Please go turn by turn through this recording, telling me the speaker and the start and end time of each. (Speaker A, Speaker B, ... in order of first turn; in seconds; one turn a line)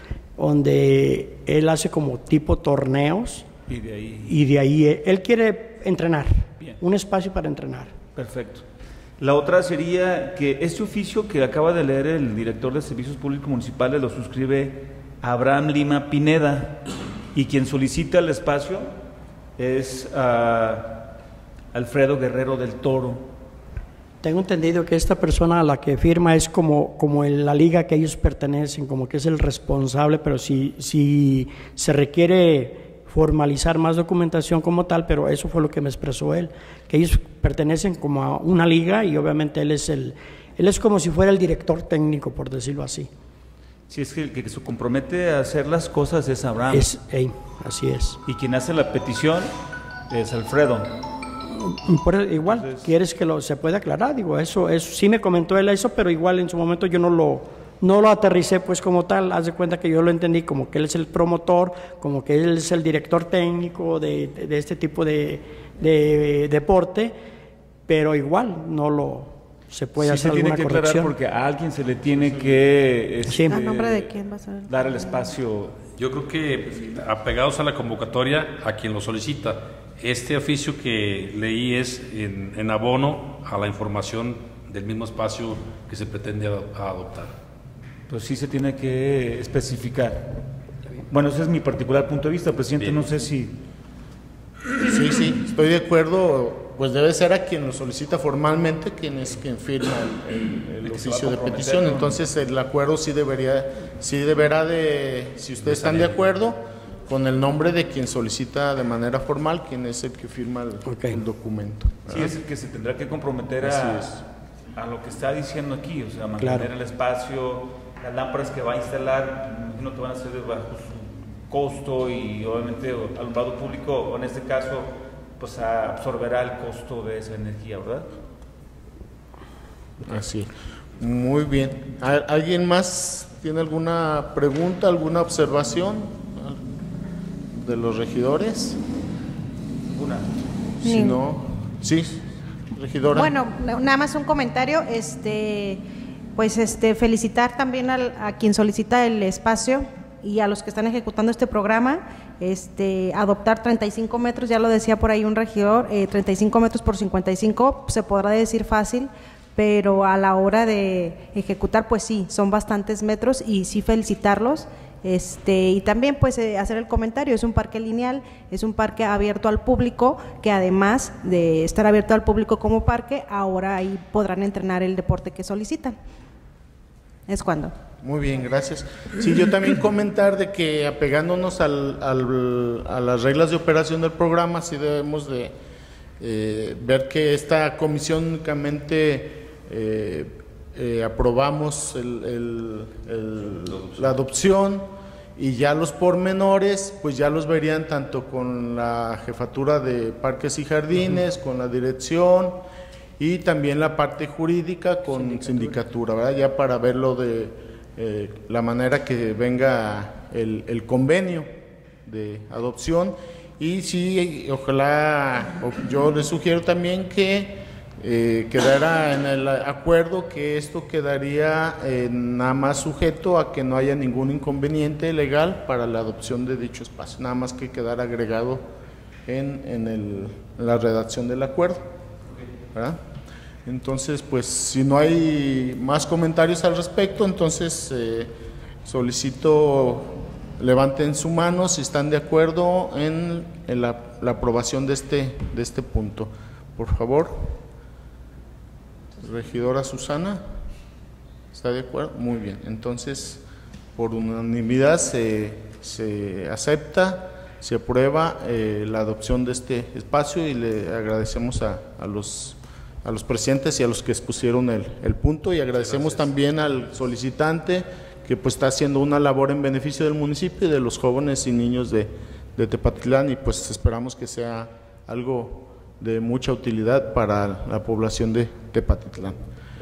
Speaker A: 0.4-3.5
Speaker B: 3.7-4.3
Speaker A: 4.3-7.9
Speaker B: 8.2-8.7
Speaker B: 9.2-18.9
Speaker B: 19.6-21.1
Speaker B: 21.7-23.3
Speaker A: 24.2-43.1
Speaker B: 43.9-46.9
Speaker A: 46.7-48.2
Speaker B: 48.3-49.5
Speaker B: 50.1-50.9
Speaker A: 51.4-67.1
Speaker B: 52.4-52.9
Speaker A: 67.9-71.2
Speaker B: 70.0-74.1
Speaker A: 73.3-73.6
Speaker C: 73.5-75.3
Speaker B: 74.7-75.8
Speaker D: 75.9-87.3
Speaker B: 88.1-90.4
Speaker B: 91.1-93.6
Speaker D: 92.8-93.0
Speaker E: 94.8-112.4
Speaker B: 100.8-102.2
Speaker D: 105.6-106.2
Speaker A: 110.8-111.2
Speaker B: 112.1-114.2
Speaker E: 113.6-114.2
Speaker B: 114.8-128.1
Speaker A: 116.4-116.7
Speaker E: 130.1-136.6
Speaker E: 137.6-138.8
Speaker B: 139.9-140.3
Speaker E: 140.8-143.3
Speaker C: 140.8-141.2
Speaker C: 143.2-145.8
Speaker C: 146.4-176.0
Speaker C: 177.3-177.7
Speaker E: 178.0-185.5
Speaker E: 186.2-202.6
Speaker D: 193.7-194.2
Speaker E: 203.2-211.5
Speaker E: 212.1-228.7
Speaker E: 229.3-231.8
Speaker E: 232.7-233.0
Speaker E: 233.7-238.3
Speaker E: 238.8-247.6
Speaker E: 249.2-250.4
Speaker E: 251.5-253.4
Speaker E: 254.0-279.4
Speaker D: 265.7-266.3